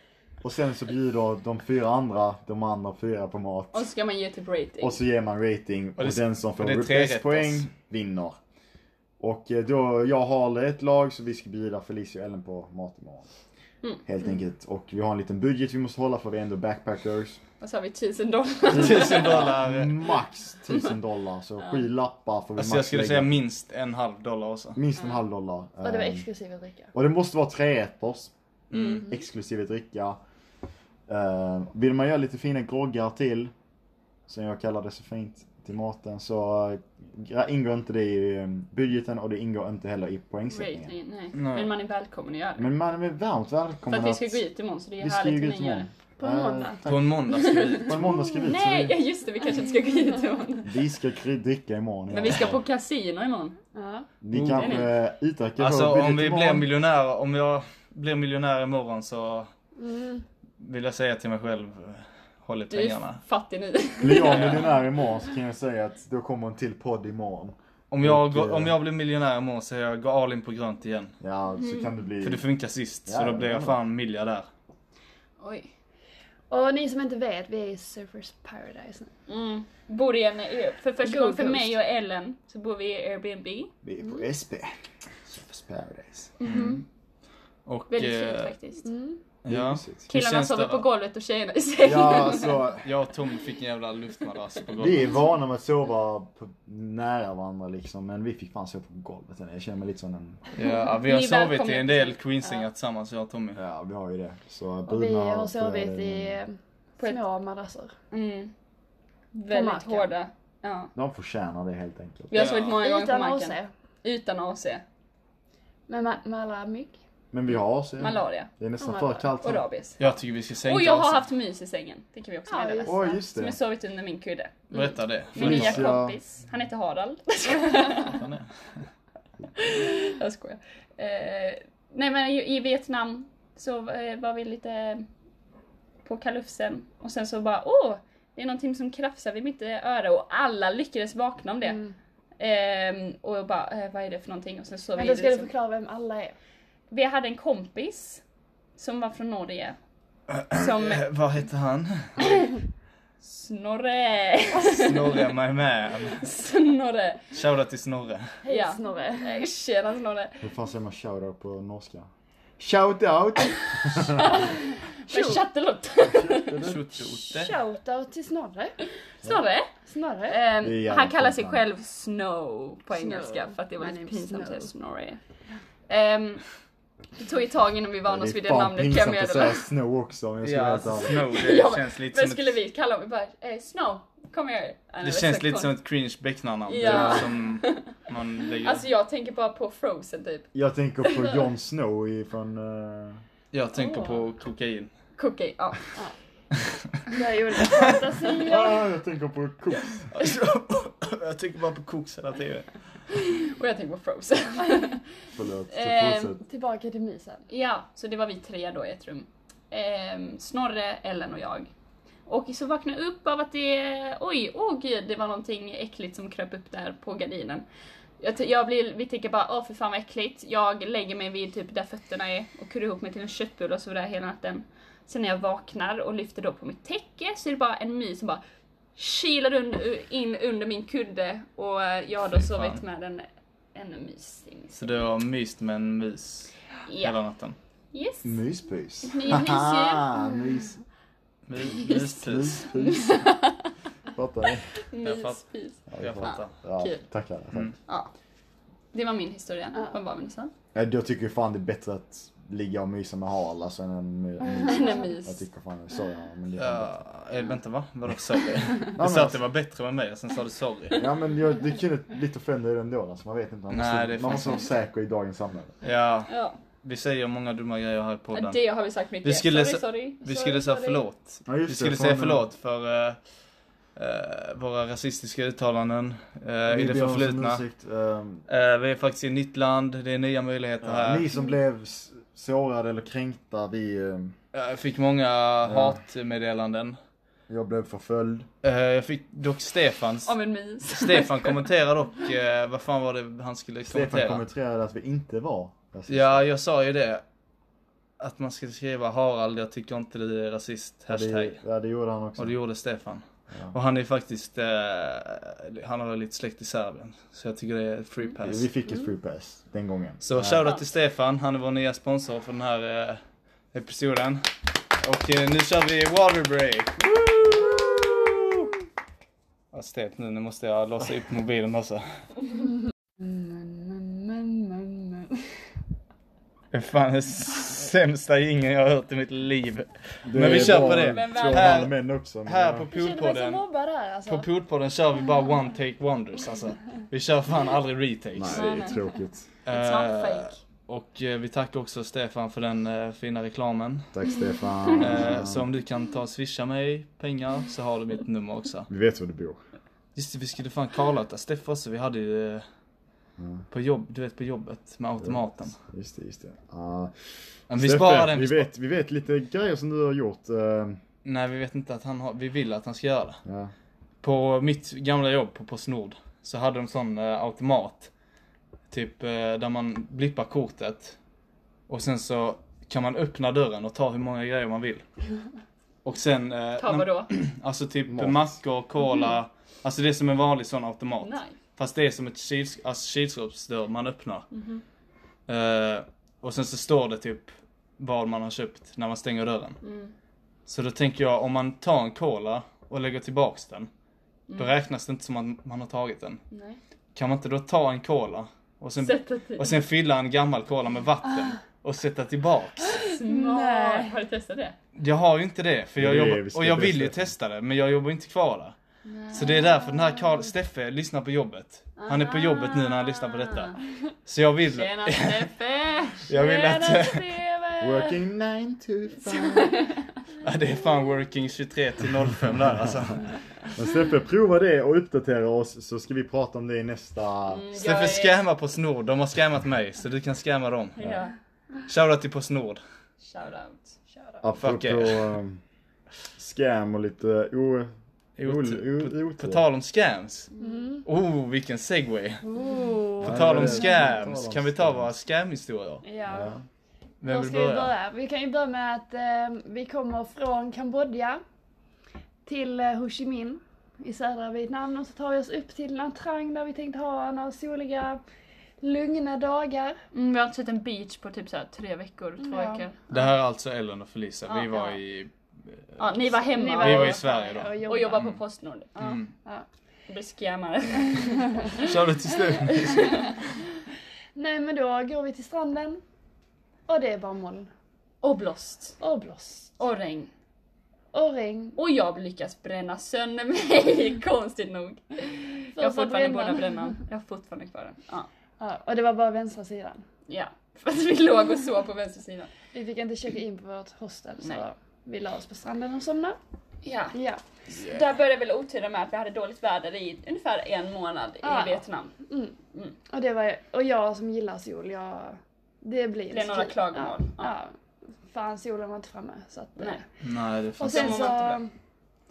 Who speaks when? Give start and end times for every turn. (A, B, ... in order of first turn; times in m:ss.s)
0:00.4-0:03.9 A
0:03.7-0:05.0 B
0:04.8-0:08.4 A
0:06.0-0:07.7 C
0:09.2-0:13.3 A
0:14.0-0:17.4 A
0:17.6-0:19.5 B
0:18.7-0:20.0 C
0:18.7-0:23.4 A
0:22.6-0:24.8 C
0:24.8-0:26.2 A
0:25.8-0:26.9 D
0:26.9-0:30.2 A
0:28.7-0:29.1 C
0:31.1-0:33.5 A
0:34.3-0:40.9 A
0:40.5-0:42.7 B
0:41.4-0:41.7 C
0:42.6-0:44.4 A
0:43.9-0:45.9 B
0:45.0-0:47.1 A
0:46.2-0:46.8 D
0:46.8-0:48.1 C
0:47.3-0:47.9 B
0:47.7-0:49.0 A
0:48.1-0:48.5 D
0:48.4-0:50.7 B
0:50.6-0:52.6 A
0:52.1-0:53.6 B
0:53.8-0:54.1 D
0:54.2-0:56.7 A
0:54.3-0:54.9 C
0:54.6-0:54.9 B
0:55.6-0:59.5 C
0:59.8-1:00.2 D
1:00.6-1:03.2 C
1:02.7-1:04.7 B
1:04.0-1:08.8 A
1:04.2-1:04.7 C
1:07.9-1:11.1 C
1:11.2-1:12.4 A
1:11.6-1:11.9 B
1:12.2-1:14.5 C
1:13.1-1:13.8 A
1:15.4-1:15.7 B
1:16.5-1:19.1 D
1:19.3-1:23.7 B
1:21.0-1:21.7 D
1:23.8-1:24.7 A
1:25.3-1:26.3 A
1:26.4-1:26.8 B
1:26.4-1:26.8 C
1:27.7-1:28.5 C
1:27.9-1:28.9 B
1:28.8-1:29.2 D
1:29.4-1:30.9 C
1:29.5-1:30.0 A
1:30.1-1:32.7 B
1:31.8-1:32.9 A
1:32.8-1:35.1 C
1:34.8-1:40.4 A
1:40.5-1:43.6 C
1:40.6-1:42.6 B
1:43.6-1:46.4 A
1:44.9-1:47.9 D
1:48.1-1:48.5 B
1:49.3-1:50.9 B
1:49.5-1:50.1 D
1:51.0-1:52.4 A
1:52.3-1:54.8 B
1:52.3-1:52.8 C
1:52.8-1:53.7 D
1:55.9-1:57.0 D
1:57.3-1:59.6 A
1:58.0-1:58.5 B
1:58.8-1:59.3 D
1:59.4-2:00.0 B
2:00.0-2:01.2 C
2:00.6-2:04.7 B
2:02.5-2:03.2 D
2:02.8-2:03.6 A
2:04.7-2:05.9 C
2:05.3-2:08.2 B
2:05.4-2:06.2 A
2:07.9-2:08.5 C
2:09.6-2:15.1 B
2:16.0-2:21.8 B
2:21.6-2:22.0 D
2:22.4-2:25.5 B
2:25.0-2:26.4 D
2:26.9-2:28.2 B
2:28.8-2:29.8 B
2:30.3-2:32.1 C
2:30.5-2:31.0 B
2:33.2-2:35.2 B
2:34.6-2:36.2 C
2:36.2-2:37.3 B
2:37.3-2:38.4 C
2:38.4-2:39.5 D
2:38.5-2:40.5 B
2:40.4-2:44.4 A
2:44.2-2:44.5 B
2:45.1-2:45.4 D
2:45.1-2:46.6 B
2:46.0-2:46.8 A
2:46.6-2:47.5 C
2:47.1-2:48.8 D
2:49.2-2:49.7 B
2:49.9-2:50.4 D
2:50.3-2:55.2 B
2:50.6-2:51.6 A
2:53.0-2:54.7 D
2:55.9-2:56.4 B
2:57.2-2:59.6 B
2:58.1-3:01.2 A
3:00.4-3:02.6 C
3:01.1-3:05.7 B
3:05.0-3:08.8 C
3:06.7-3:08.0 B
3:06.8-3:07.2 A
3:08.6-3:10.5 B
3:10.5-3:13.2 A
3:13.5-3:14.9 C
3:13.8-3:14.2 D
3:15.2-3:16.0 B
3:17.1-3:18.8 D
3:18.4-3:20.1 A
3:20.1-3:22.7 C
3:23.4-3:25.0 B
3:25.3-3:26.4 A
3:25.7-3:26.4 B
3:26.4-3:27.5 D
3:27.5-3:31.7 B
3:32.3-3:37.6 B
3:38.2-3:48.4 B
3:49.0-3:55.0 B
3:52.4-3:52.8 C
3:54.8-3:57.6 C
3:56.9-3:57.2 B
3:57.9-3:58.4 B
3:58.2-4:00.8 A
3:59.0-4:00.1 B
4:01.5-4:02.7 C
4:01.8-4:02.2 B
4:02.2-4:03.2 A
4:02.7-4:03.7 B
4:04.1-4:04.7 A
4:04.9-4:07.0 B
4:05.0-4:06.5 C
4:05.9-4:07.7 A
4:07.9-4:08.1 B
4:08.9-4:10.5 B
4:10.7-4:16.9 A
4:14.6-4:15.0 D
4:14.6-4:15.4 B
4:16.6-4:21.1 C
4:19.0-4:19.4 A
4:21.0-4:25.8 A
4:23.7-4:24.7 C
4:25.8-4:26.3 C
4:26.3-4:26.6 B
4:26.8-4:28.6 C
4:28.3-4:30.2 B
4:29.2-4:33.2 C
4:30.2-4:31.0 D
4:31.5-4:32.4 A
4:34.0-4:37.6 C
4:36.7-4:38.4 A
4:38.5-4:41.3 C
4:40.8-4:44.4 A
4:44.5-4:47.0 C
4:45.6-4:46.0 A
4:47.5-4:48.5 A
4:48.6-4:50.4 C
4:50.2-4:51.6 B
4:50.9-4:54.4 C
4:53.8-4:56.4 A
4:56.1-4:57.2 C
4:58.2-5:01.6 C
5:01.1-5:02.6 A
5:02.4-5:08.7 C
5:08.4-5:10.7 A
5:10.2-5:13.2 C
5:13.7-5:14.4 C
5:15.0-5:17.5 C
5:17.4-5:18.0 A
5:19.7-5:22.1 C
5:23.2-5:25.4 D
5:26.7-5:33.6 C
5:30.2-5:32.9 A
5:30.7-5:31.9 B
5:32.9-5:34.5 D
5:34.3-5:38.7 C
5:38.3-5:39.5 A
5:38.5-5:39.0 B
5:39.7-5:44.1 C
5:39.7-5:40.6 B
5:44.1-5:45.7 A
5:45.0-5:48.9 C
5:48.9-5:49.6 A
5:50.2-5:52.6 C
5:53.4-5:53.6 A
5:53.7-5:55.8 C
5:55.2-5:57.2 A
5:57.7-5:58.7 C
5:57.7-6:01.0 A
6:01.2-6:03.4 C
6:03.4-6:03.7 A
6:04.2-6:08.1 C
6:08.9-6:11.2 C
6:11.9-6:15.0 C
6:16.0-6:24.5 C
6:16.8-6:17.3 B
6:18.1-6:18.4 A
6:21.2-6:21.6 B
6:24.5-6:24.8 B
6:25.5-6:29.8 C
6:29.8-6:30.1 B
6:30.7-6:33.9 C
6:34.6-6:36.4 C
6:36.5-6:36.8 B
6:37.2-6:43.0 C
6:39.0-6:39.8 B
6:43.0-6:44.8 B
6:43.2-6:44.1 D
6:45.0-6:48.8 C
6:46.0-6:47.3 A
6:49.1-6:49.9 B
6:49.3-6:53.7 C
6:52.0-6:53.8 B
6:54.3-6:55.5 C
6:54.7-6:56.3 B
6:56.3-6:57.3 C
6:56.3-6:58.2 D
6:57.8-6:59.8 A
6:59.3-7:00.0 B
7:00.4-7:03.3 C
7:03.7-7:07.6 A
7:07.5-7:08.4 B
7:07.8-7:11.1 C
7:11.0-7:11.3 B
7:11.9-7:12.8 C
7:13.2-7:14.0 B
7:14.1-7:14.4 D
7:14.4-7:15.6 A
7:14.6-7:15.4 C
7:16.4-7:17.9 A
7:18.4-7:20.5 C
7:18.4-7:19.6 A
7:20.6-7:21.0 D
7:21.0-7:22.4 C
7:22.4-7:23.5 D
7:23.2-7:26.0 C
7:23.2-7:25.1 A
7:26.0-7:26.5 D
7:26.3-7:26.6 A
7:27.2-7:27.9 C
7:27.3-7:31.4 D
7:32.5-7:38.2 D
7:38.8-7:40.0 D
7:40.1-7:43.2 B
7:42.4-7:42.8 D
7:43.1-7:46.0 C
7:44.5-7:45.0 B
7:46.0-7:47.2 B
7:46.5-7:48.3 D
7:46.8-7:48.4 C
7:47.8-7:49.2 B
7:49.0-7:49.3 C
7:50.1-7:51.9 B
7:51.1-7:51.8 D
7:51.8-7:53.3 C
7:52.7-7:53.3 B
7:54.4-7:56.0 D
7:56.9-7:57.7 D
7:58.2-7:59.0 B
7:59.0-7:59.7 D
7:59.8-8:00.3 B
8:01.1-8:01.8 D
8:01.8-8:08.3 B
8:05.8-8:07.0 D
8:08.6-8:10.0 D
8:10.3-8:12.5 B
8:12.7-8:16.4 D
8:16.8-8:17.2 B
8:17.1-8:17.4 D
8:17.7-8:22.2 B
8:21.4-8:22.6 D
8:23.1-8:27.7 D
8:26.3-8:27.5 B
8:28.3-8:30.0 D
8:30.2-8:31.4 C
8:30.8-8:31.7 D
8:30.8-8:31.6 B